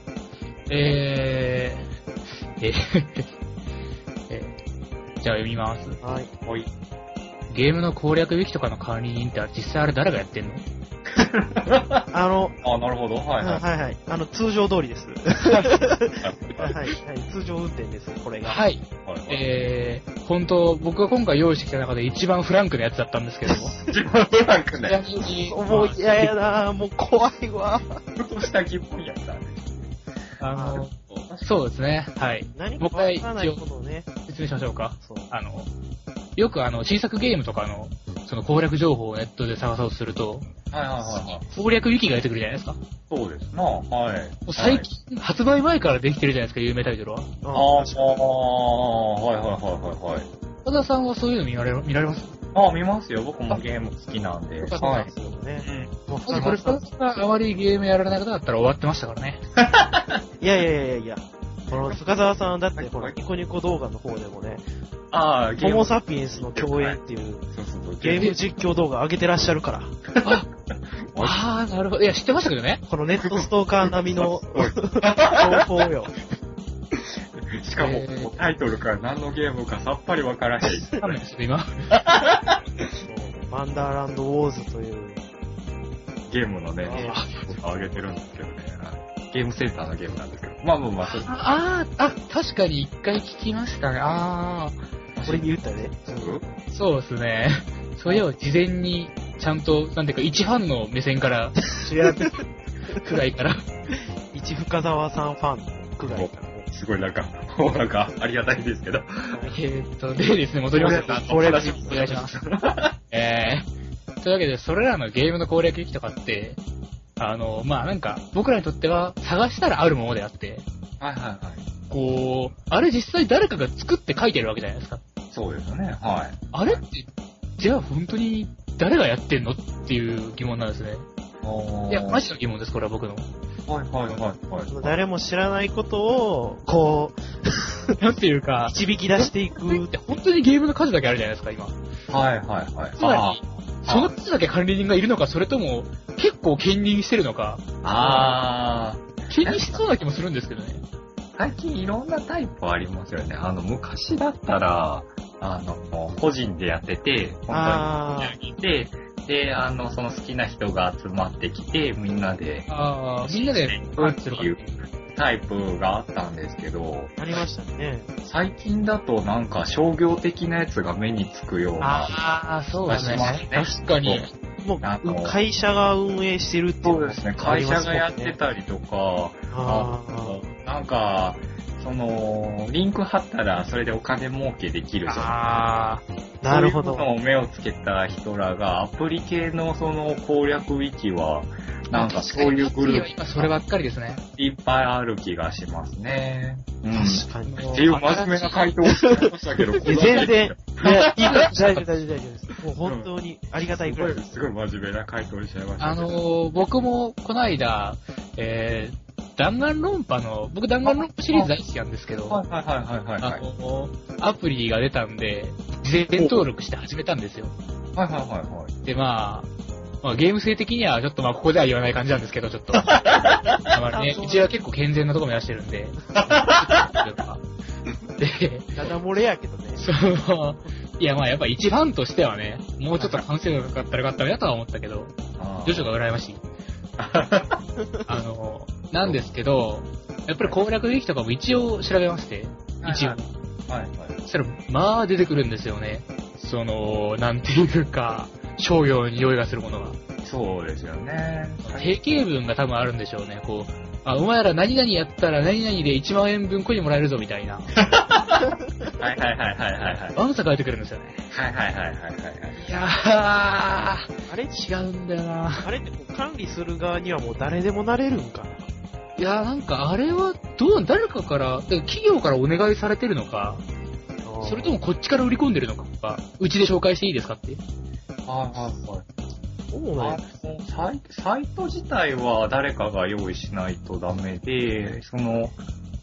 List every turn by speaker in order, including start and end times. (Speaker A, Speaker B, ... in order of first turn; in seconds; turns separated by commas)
Speaker A: 0.7-1.9, Speaker A: 2.6-3.3, Speaker A: 4.3-4.6, Speaker A: 5.2-6.0, Speaker B: 6.0-6.3, Speaker C: 6.5-6.7, Speaker A: 7.5-10.6, Speaker C: 11.1-12.1, Speaker B: 12.1-12.6, Speaker C: 12.6-13.6, Speaker B: 13.4-18.6, Speaker C: 16.2-16.8, Speaker A: 18.5-23.8, Speaker C: 19.0-19.7, Speaker B: 23.5-23.9, Speaker C: 23.9-25.0, Speaker A: 24.8-26.3, Speaker B: 25.3-28.0, Speaker C: 28.2-30.0, Speaker A: 30.4-33.6, Speaker B: 30.5-30.9, Speaker C: 30.8-31.6, Speaker B: 32.5-34.1, Speaker A: 34.3-35.7, Speaker B: 35.0-35.3, Speaker A: 36.4-40.5, Speaker C: 40.7-41.4, Speaker A: 41.1-42.8, Speaker C: 43.1-44.9, Speaker A: 44.5-47.3, Speaker B: 47.4-48.1, Speaker C: 47.5-50.3, Speaker A: 50.6-52.4, Speaker C: 52.5-55.1, Speaker B: 54.7-56.8, Speaker A: 54.7-55.1, Speaker C: 55.6-56.5, Speaker A: 56.3-59.4, Speaker C: 59.6-60.1, Speaker B: 60.4-64.6, Speaker C: 62.8-63.2, Speaker C: 65.1-67.0, Speaker B: 65.6-67.5, Speaker C: 67.5-68.3, Speaker B: 68.0-69.9, Speaker C: 70.2-70.4, Speaker A: 70.2-70.5, Speaker C: 71.1-71.4, Speaker A: 71.2-72.8, Speaker B: 72.9-76.1, Speaker C: 73.2-75.6, Speaker C: 77.0-81.1, Speaker A: 77.8-78.4, Speaker A: 81.0-81.9, Speaker C: 82.0-82.6, Speaker B: 83.1-85.2, Speaker C: 86.3-91.3, Speaker A: 86.9-87.5, Speaker B: 86.9-87.8, Speaker A: 91.0-94.8, Speaker C: 95.2-95.5, Speaker B: 95.2-96.4, Speaker C: 96.1-96.5, Speaker A: 96.7-102.4, Speaker B: 101.8-102.3, Speaker A: 103.0-103.6, Speaker B: 104.3-106.7, Speaker C: 106.1-109.4, Speaker B: 109.3-109.6, Speaker A: 109.5-112.4, Speaker C: 110.7-113.0, Speaker B: 110.9-112.2, Speaker A: 113.1-113.7, Speaker A: 114.2-116.6, Speaker A: 117.2-120.7, Speaker C: 121.0-121.7, Speaker A: 121.9-125.0, Speaker C: 125.3-126.8, Speaker A: 126.5-131.1, Speaker C: 131.4-132.2, Speaker A: 131.9-133.3, Speaker C: 133.7-134.9, Speaker B: 134.7-137.9, Speaker A: 138.0-141.8, Speaker B: 138.7-140.0, Speaker C: 142.1-144.1, Speaker A: 143.0-148.4, Speaker C: 147.8-149.8, Speaker A: 149.3-150.8, Speaker C: 151.4-162.7, Speaker B: 157.5-158.4, Speaker A: 162.7-164.8, Speaker C: 163.2-167.2, Speaker B: 167.2-168.1, Speaker C: 168.2-172.2, Speaker A: 171.8-174.3, Speaker C: 172.8-174.3, Speaker B: 172.9-173.3, Speaker B: 174.6-178.3, Speaker C: 174.8-175.4, Speaker C: 176.8-185.4, Speaker B: 179.5-180.5, Speaker A: 185.1-186.0, Speaker B: 186.4-187.1, Speaker C: 186.4-193.6, Speaker A: 191.9-194.2, Speaker C: 194.4-201.4, Speaker B: 196.9-197.8, Speaker A: 197.5-198.6, Speaker B: 198.9-199.3, Speaker B: 199.8-204.4, Speaker A: 201.3-201.8, Speaker C: 202.8-203.1, Speaker C: 203.6-206.1, Speaker A: 205.8-212.4, Speaker C: 210.9-211.5, Speaker C: 212.3-213.4, Speaker A: 213.2-217.6, Speaker C: 217.9-218.8, Speaker A: 218.8-219.5, Speaker A: 220.0-223.0, Speaker C: 222.7-223.6, Speaker A: 223.6-227.4, Speaker B: 223.9-224.5, Speaker C: 226.2-226.9, Speaker A: 228.2-228.8, Speaker B: 228.8-229.8, Speaker A: 229.8-236.4, Speaker C: 235.4-235.9, Speaker C: 237.0-237.6, Speaker B: 237.8-238.1, Speaker A: 238.1-243.2, Speaker C: 239.0-239.3, Speaker C: 242.8-244.2, Speaker A: 244.2-250.0, Speaker C: 250.2-252.2, Speaker A: 251.6-257.7, Speaker C: 257.8-260.2, Speaker A: 260.1-261.3, Speaker C: 261.3-262.7, Speaker A: 262.6-265.7, Speaker B: 264.3-264.6, Speaker B: 265.6-268.6, Speaker A: 269.2-273.6, Speaker B: 274.2-274.8, Speaker A: 274.4-277.6, Speaker C: 278.3-279.1, Speaker B: 279.7-280.2, Speaker C: 280.0-285.6